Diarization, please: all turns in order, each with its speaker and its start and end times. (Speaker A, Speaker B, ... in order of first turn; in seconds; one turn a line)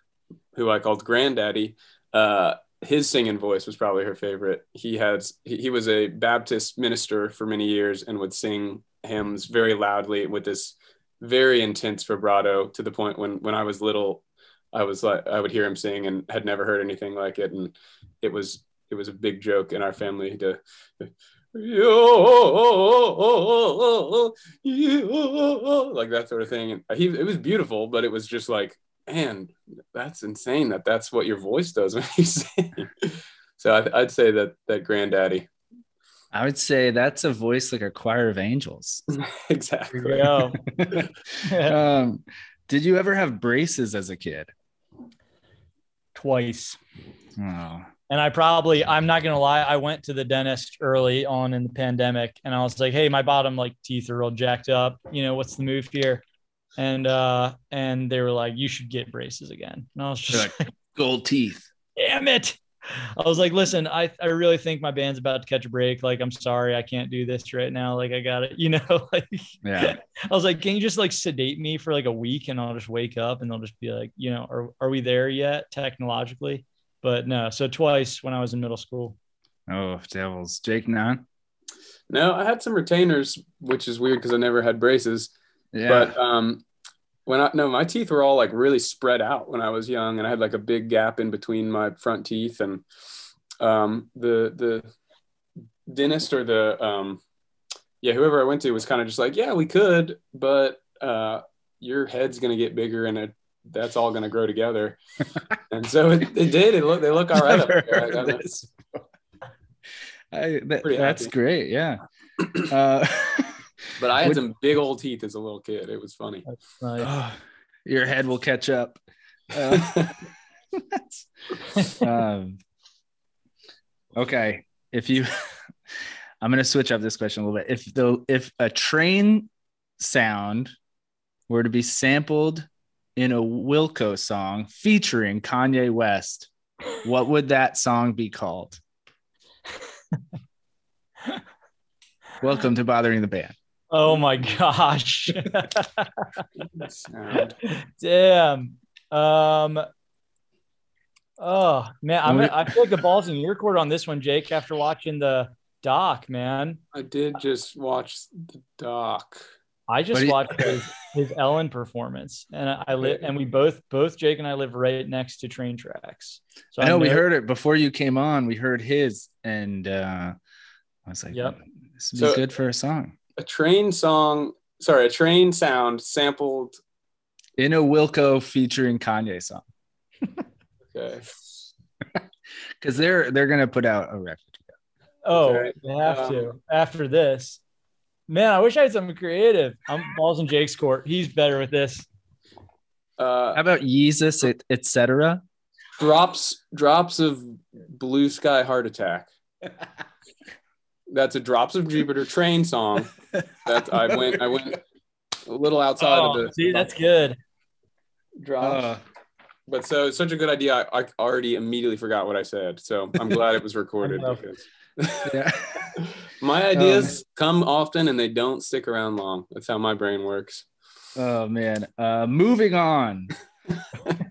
Speaker A: 0.5-35.5
Speaker B: 36.3-39.0
Speaker A: 39.1-40.5
Speaker C: 39.9-40.6
Speaker B: 40.6-44.5
Speaker C: 41.4-41.8
Speaker C: 46.1-46.8
Speaker B: 47.4-47.9
Speaker C: 48.1-56.2
Speaker C: 56.8-60.7
Speaker B: 60.3-61.7
Speaker C: 62.0-79.2
Speaker B: 69.6-70.0
Speaker B: 79.7-81.2
Speaker A: 82.1-85.3
Speaker B: 85.7-86.2
Speaker A: 85.9-86.6
Speaker A: 87.2-92.8
Speaker A: 93.6-94.8
Speaker A: 95.9-97.2
Speaker A: 98.0-105.0
Speaker A: 105.7-108.4
Speaker B: 107.3-109.0
Speaker B: 110.3-112.0
Speaker A: 110.8-111.3
Speaker B: 112.5-114.4
Speaker A: 114.0-116.5
Speaker C: 116.5-117.1
Speaker B: 117.0-119.0
Speaker B: 119.5-120.1
Speaker A: 119.7-120.1
Speaker B: 120.7-121.2
Speaker B: 121.9-122.6
Speaker B: 124.1-125.6
Speaker B: 126.4-130.7
Speaker B: 131.5-136.5
Speaker B: 137.0-138.8
Speaker B: 142.4-143.5
Speaker C: 143.9-146.3
Speaker A: 146.7-147.5
Speaker C: 147.7-149.8
Speaker C: 151.4-156.8
Speaker B: 152.2-152.8
Speaker A: 156.9-159.4
Speaker C: 159.9-167.2
Speaker B: 160.1-160.4
Speaker B: 166.8-170.3
Speaker B: 171.1-173.1
Speaker A: 172.1-172.4
Speaker A: 173.4-176.8
Speaker B: 177.6-179.6
Speaker A: 180.9-181.3
Speaker B: 182.8-184.6
Speaker C: 185.2-187.6
Speaker A: 185.3-186.5
Speaker C: 188.3-192.1
Speaker A: 193.2-193.6
Speaker B: 193.5-195.4
Speaker A: 196.0-199.3
Speaker A: 201.1-203.1
Speaker A: 203.6-204.8
Speaker B: 204.1-204.5
Speaker A: 205.4-206.9
Speaker C: 206.0-207.4
Speaker A: 208.4-208.9
Speaker B: 208.6-209.0
Speaker A: 209.7-215.4
Speaker C: 214.0-214.4
Speaker B: 215.2-215.9
Speaker A: 215.9-220.7
Speaker B: 216.8-217.1
Speaker B: 221.2-223.3